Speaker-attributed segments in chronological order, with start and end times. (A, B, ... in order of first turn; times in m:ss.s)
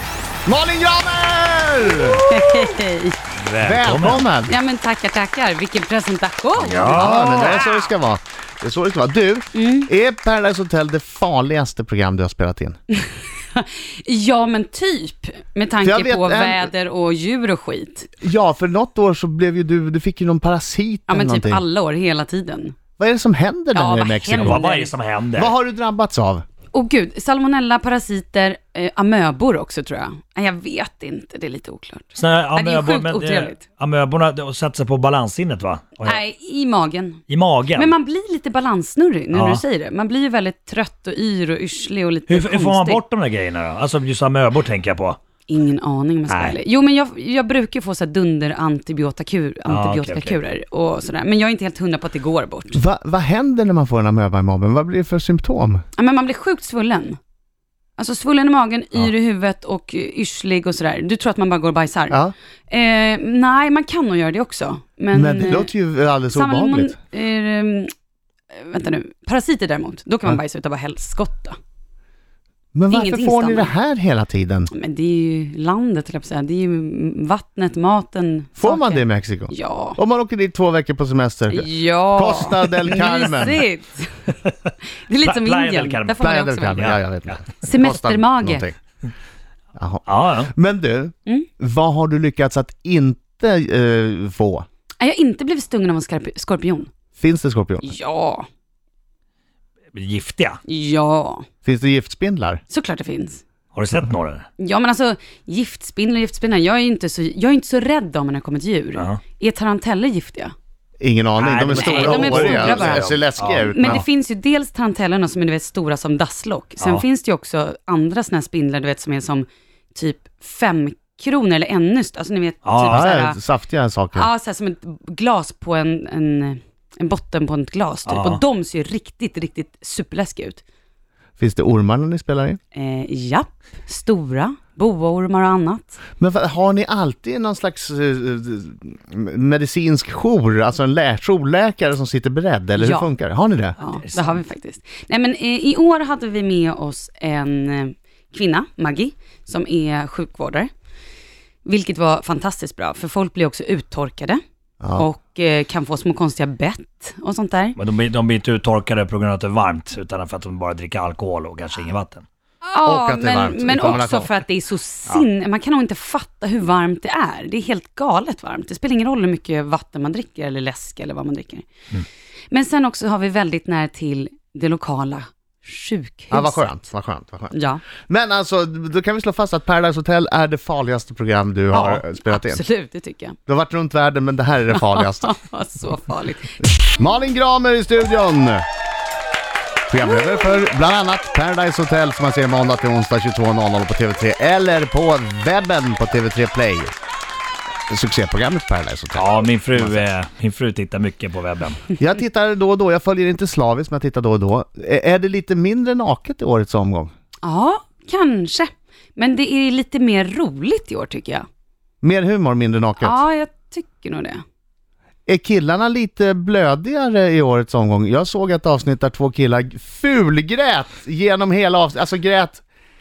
0:00.4-0:02.3 A
0:02.2-0:03.2 B
0:03.3-0:04.3 C
0:03.6-0:04.6 A
0:04.5-0:07.8 B
0:06.6-0:07.6 C
0:06.8-0:12.8 A
0:09.5-0:09.9 B
0:12.9-0:18.1 B
0:15.8-0:16.7 A
0:18.2-0:21.6 A
0:21.1-0:22.8 B
0:23.0-0:24.6 A
0:23.7-0:24.9 B
0:24.4-0:25.5 C
0:25.4-0:26.4 A
0:26.7-0:33.6 B
0:32.1-0:36.2 C
0:36.0-0:37.2 B
0:37.3-0:37.9 C
0:37.7-0:43.0 B
0:39.3-0:39.6 C
0:42.3-0:45.2 C
0:45.5-0:52.8 B
0:46.3-0:46.6 C
0:49.7-0:50.4 C
0:52.7-0:55.8 A
0:55.9-0:57.2 B
0:58.0-1:05.7 B
1:05.1-1:07.0 A
1:06.3-1:07.9 B
1:08.5-1:11.6 B
1:12.7-1:14.7 A
1:12.9-1:13.7 B
1:14.7-1:20.0 B
1:18.6-1:23.6 A
1:21.5-1:24.5 B
1:25.0-1:26.9 B
1:25.2-1:26.2 C
1:26.2-1:28.7 A
1:26.8-1:27.5 C
1:27.6-1:28.6 B
1:29.8-1:34.6 A
1:30.0-1:30.5 C
1:35.0-1:36.9 B
1:37.2-1:38.0 A
1:37.8-1:38.5 B
1:39.9-1:40.6 C
1:40.6-1:41.5 B
1:41.6-1:42.6 A
1:42.7-1:43.4 B
1:43.7-1:44.5 C
1:44.6-1:50.5 B
1:51.0-1:54.0 A
1:51.4-1:54.0 C
1:51.7-1:53.0 B
1:53.7-2:03.4 B
2:02.6-2:03.3 C
2:02.9-2:04.3 A
2:04.1-2:10.6 B
2:08.0-2:08.4 C
2:11.4-2:12.6 A
2:12.7-2:16.0 B
2:16.2-2:23.8 A
2:22.8-2:23.1 B
2:23.8-2:30.7 B
2:23.9-2:24.4 C
2:31.6-2:34.4 B
2:34.8-2:35.0 A
2:35.0-2:37.8 B
2:37.8-2:42.2 C
2:42.6-2:51.7 B
2:42.8-2:44.3 A
2:52.5-2:56.8 B
2:56.3-2:57.5 A
2:57.5-2:57.8 B
2:58.1-3:02.6 A
3:01.7-3:03.4 B
3:03.5-3:05.3 A
3:04.7-3:06.8 B
3:06.9-3:08.6 A
3:09.9-3:16.9 A
3:10.0-3:10.6 B
3:17.9-3:20.0 A
3:19.1-3:21.8 C
3:22.0-3:27.1 A
3:27.4-3:31.4 B
3:32.0-3:33.2 A
3:33.0-3:34.4 B
3:35.2-3:42.6 A